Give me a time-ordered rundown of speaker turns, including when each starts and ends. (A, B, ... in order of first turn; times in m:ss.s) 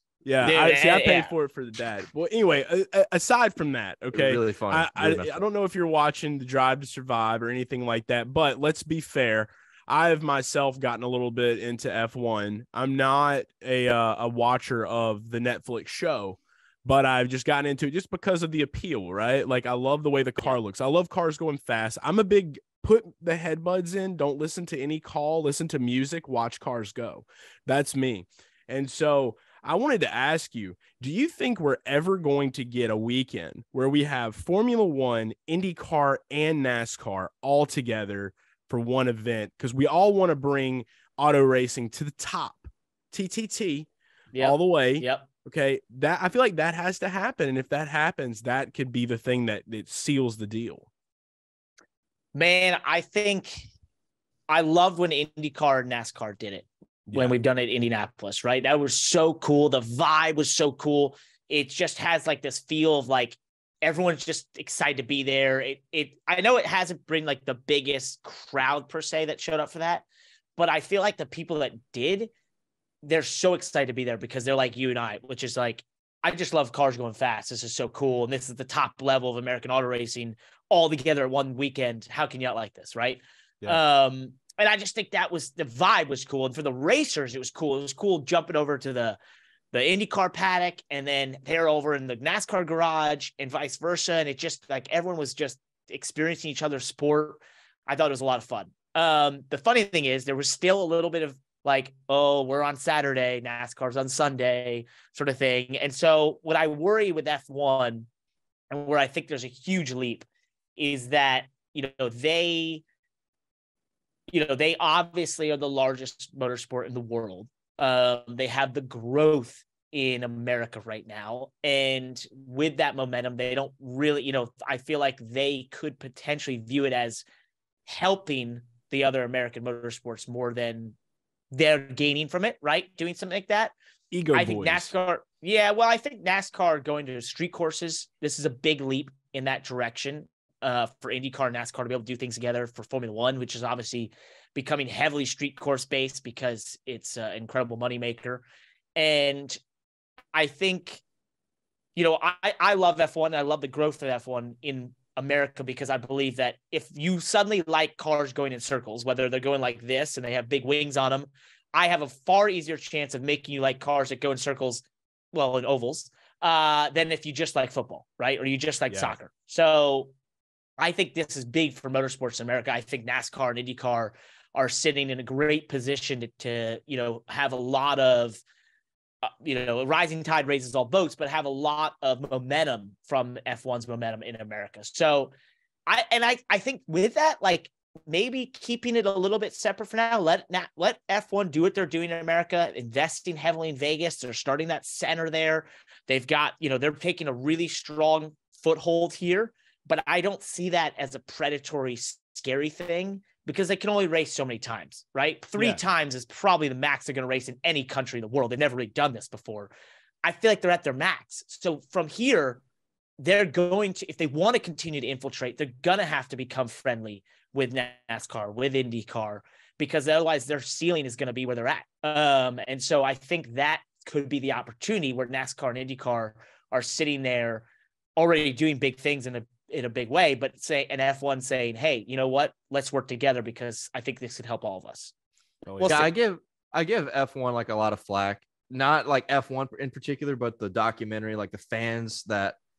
0:00.2-0:50.9 A
0:00.4-0:01.3 B
0:04.1-0:05.4 C
0:44.3-0:45.3 B
0:52.3-0:53.7 B
0:54.5-1:10.1 B
0:57.1-0:57.3 A
1:10.6-1:12.3 B
1:13.0-1:29.2 B
1:29.7-1:48.1 B
1:48.7-1:50.2 B
1:50.8-1:52.8 B
1:54.3-2:07.2 B
2:07.9-2:11.0 B
2:11.5-2:13.7 B
2:14.1-2:14.9 A
2:14.3-2:28.4 B
2:29.0-2:29.6 B
2:30.3-2:31.0 B
2:32.0-2:50.1 B
2:48.9-2:49.2 A
2:50.8-2:58.4 B
2:59.2-3:05.3 B
3:05.9-3:29.7 B
3:25.6-3:25.8 A
3:30.2-3:32.6 B
3:33.2-3:55.1 B
3:55.7-3:56.1 A
3:55.8-3:56.1 B
3:55.8-4:02.6 C